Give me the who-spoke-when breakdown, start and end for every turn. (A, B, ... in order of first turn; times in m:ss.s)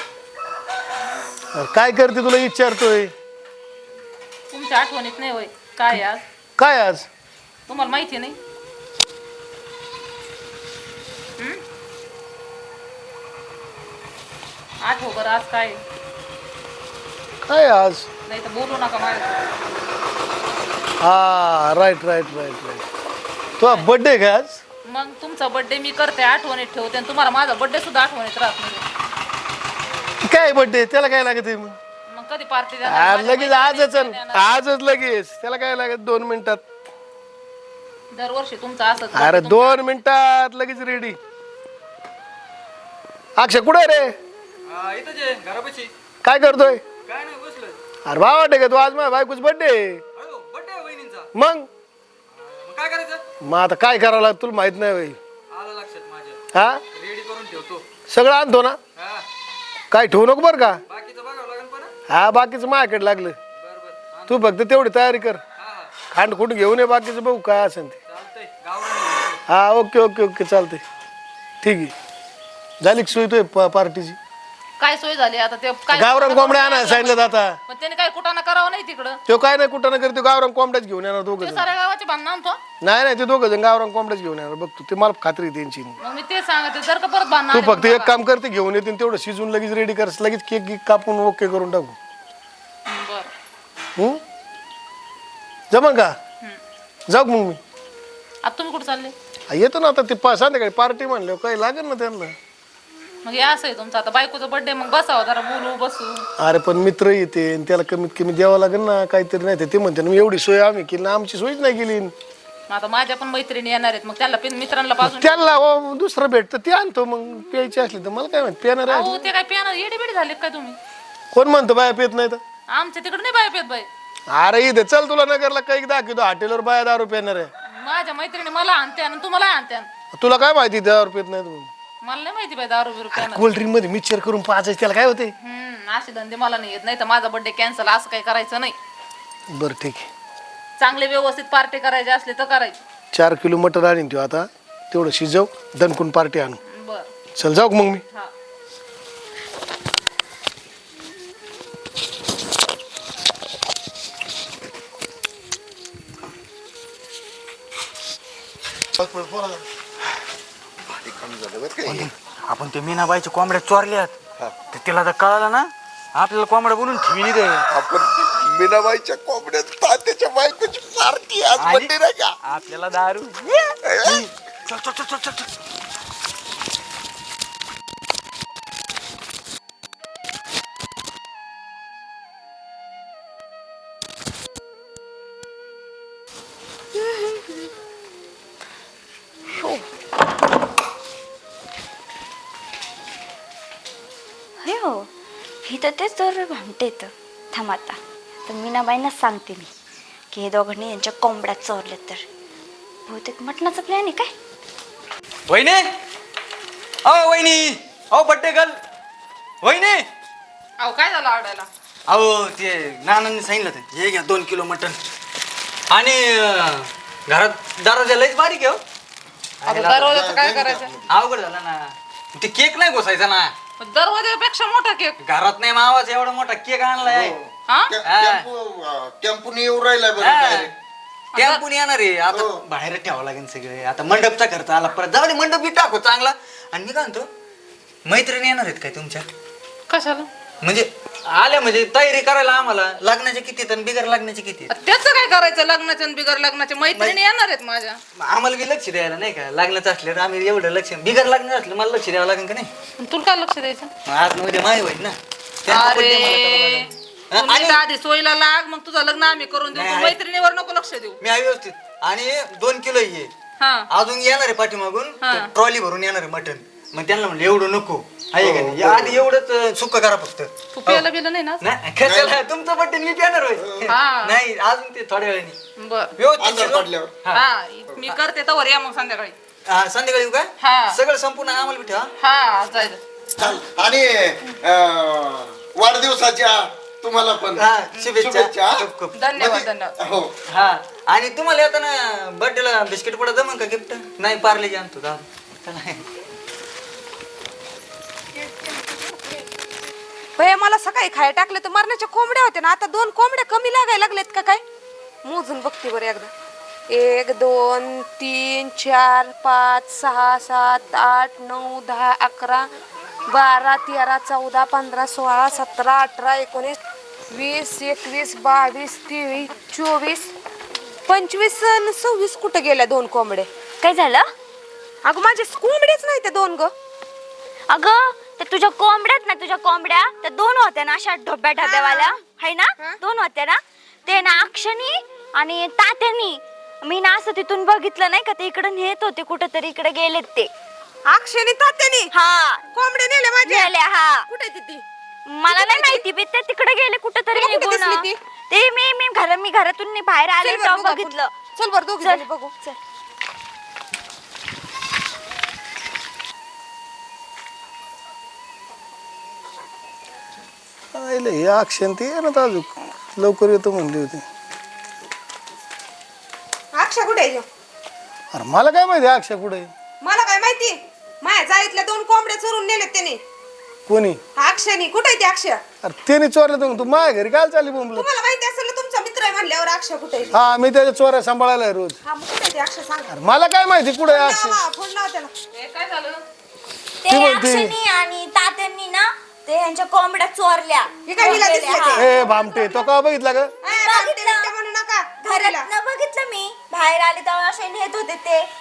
0:01.5-0:03.1 A
0:04.5-0:06.2 B
0:06.6-0:07.1 A
0:07.7-0:08.4 B
0:14.8-0:15.8 B
0:17.4-0:18.1 A
0:18.3-0:19.3 B
0:21.0-0:22.8 A
0:23.6-0:24.6 A
0:23.6-0:23.9 B
0:24.8-0:28.8 B
0:30.2-0:31.8 A
0:32.1-0:34.6 B
0:32.8-0:36.6 A
0:38.1-0:39.8 B
0:39.1-0:41.2 A
0:43.4-0:44.1 A
0:44.7-0:45.9 C
0:46.2-0:46.8 A
0:47.0-0:47.8 C
0:48.1-0:50.0 A
0:50.2-0:51.3 C
0:51.3-0:51.7 A
0:52.3-0:53.2 C
0:53.4-0:55.2 A
0:55.5-0:56.4 C
0:56.5-0:56.8 A
0:56.9-0:57.8 C
0:58.1-0:58.8 A
0:59.0-0:59.2 C
0:59.9-1:00.8 A
1:00.9-1:01.9 C
1:02.1-1:03.4 A
1:03.6-1:04.4 C
1:04.3-1:05.4 A
1:05.6-1:05.9 C
1:06.1-1:08.0 A
1:08.1-1:09.4 C
1:09.5-1:10.8 A
1:11.6-1:11.9 A
1:12.8-1:14.2 A
1:14.8-1:19.2 B
1:15.9-1:17.6 A
1:19.3-1:21.7 A
1:21.4-1:22.6 B
1:22.8-1:26.0 A
1:26.0-1:28.2 B
1:27.5-1:32.0 A
1:32.9-1:33.3 B
1:35.7-1:36.1 A
1:37.1-1:37.6 A
1:38.4-1:39.1 B
1:39.5-1:42.4 A
1:43.2-1:46.2 B
1:46.4-1:52.1 A
1:52.7-1:55.5 B
1:55.0-1:59.2 A
1:58.9-2:00.8 B
2:01.3-2:02.4 A
2:02.7-2:03.9 B
2:04.3-2:07.5 A
2:07.7-2:09.9 B
2:10.1-2:11.7 A
2:12.0-2:13.4 B
2:13.1-2:15.3 A
2:15.4-2:18.7 B
2:19.5-2:20.1 A
2:20.8-2:22.8 B
2:23.1-2:26.6 A
2:26.6-2:27.1 B
2:27.4-2:28.0 A
2:38.9-2:39.6 D
2:41.0-2:42.1 D
2:41.8-2:44.2 C
2:44.7-2:47.6 C
2:47.7-2:52.3 D
2:51.5-2:51.9 C
2:52.4-2:55.5 C
2:53.8-2:54.3 D
3:07.0-3:07.4 E
3:09.5-3:09.8 E
3:14.6-3:15.1 E
3:15.6-3:19.7 E
3:20.3-3:22.2 E
3:23.1-3:24.3 E
3:25.5-3:25.9 C
3:27.0-3:28.7 C
3:29.6-3:30.0 C
3:30.8-3:31.7 B
3:32.1-3:35.0 C
3:35.9-3:38.8 C
3:39.6-3:40.1 C
3:39.6-3:40.9 B
3:40.0-3:41.1 D
3:41.1-3:43.5 C
3:43.8-3:45.2 B
3:45.2-3:47.4 C
3:47.0-3:50.7 D
3:48.0-3:48.5 C
3:50.2-3:50.7 C
3:51.3-3:51.6 B
3:51.4-3:57.3 C
3:52.3-3:52.6 D
3:58.0-3:59.2 C
3:59.9-4:00.3 B
4:00.6-4:04.7 C
4:04.7-4:08.0 B
4:06.9-4:07.2 C
4:08.2-4:12.7 C
4:13.0-4:13.9 B
4:14.0-4:17.8 C
4:15.7-4:21.2 B
4:19.7-4:20.2 C
4:21.2-4:23.3 C
4:23.6-4:23.8 B
4:23.9-4:31.0 C
4:25.2-4:25.5 B
4:28.4-4:29.3 D
4:30.7-4:31.6 B
4:31.6-4:35.6 C
4:32.0-4:32.4 D
4:33.6-4:33.9 D
4:33.9-4:34.3 B
4:35.8-4:36.1 B
4:36.2-4:37.4 C
4:36.4-4:37.1 D
4:37.3-4:39.3 B
4:39.7-4:42.1 C
4:40.6-4:41.0 B
4:42.2-4:43.0 B
4:43.4-4:50.3 D
4:47.6-4:49.2 C
4:49.1-4:49.9 F
4:49.3-4:49.9 B
4:50.5-4:56.0 C
5:00.4-5:04.6 F
5:05.2-5:06.3 F
5:06.9-5:12.7 F
5:13.3-5:16.8 F
5:17.3-5:20.3 F
5:21.1-5:23.5 F
5:23.8-5:24.3 E
5:25.0-5:26.7 F
5:27.7-5:40.5 E
5:31.6-5:32.2 F
5:41.1-5:42.1 F
5:42.1-5:42.6 E
5:42.7-5:43.7 F
5:43.5-5:44.3 E
5:44.3-5:44.8 F
5:45.3-5:51.3 E
5:45.5-5:46.0 F
5:47.3-5:48.1 F
5:50.4-5:52.6 F
5:52.0-5:52.8 E
6:00.9-6:04.2 A
6:06.7-6:07.4 F
6:08.3-6:09.7 A
6:10.0-6:13.2 F
6:13.9-6:14.2 A
6:14.4-6:15.6 F
6:15.8-6:18.0 A
6:17.9-6:20.4 F
6:20.3-6:22.0 A
6:22.0-6:23.2 F
6:23.1-6:24.6 A
6:24.0-6:25.3 F
6:25.5-6:26.2 B
6:27.0-6:31.9 E
6:27.1-6:27.8 A
6:31.1-6:32.1 F
6:31.9-6:33.5 A
6:33.6-6:35.7 F
6:33.7-6:34.5 E
6:35.2-6:38.5 E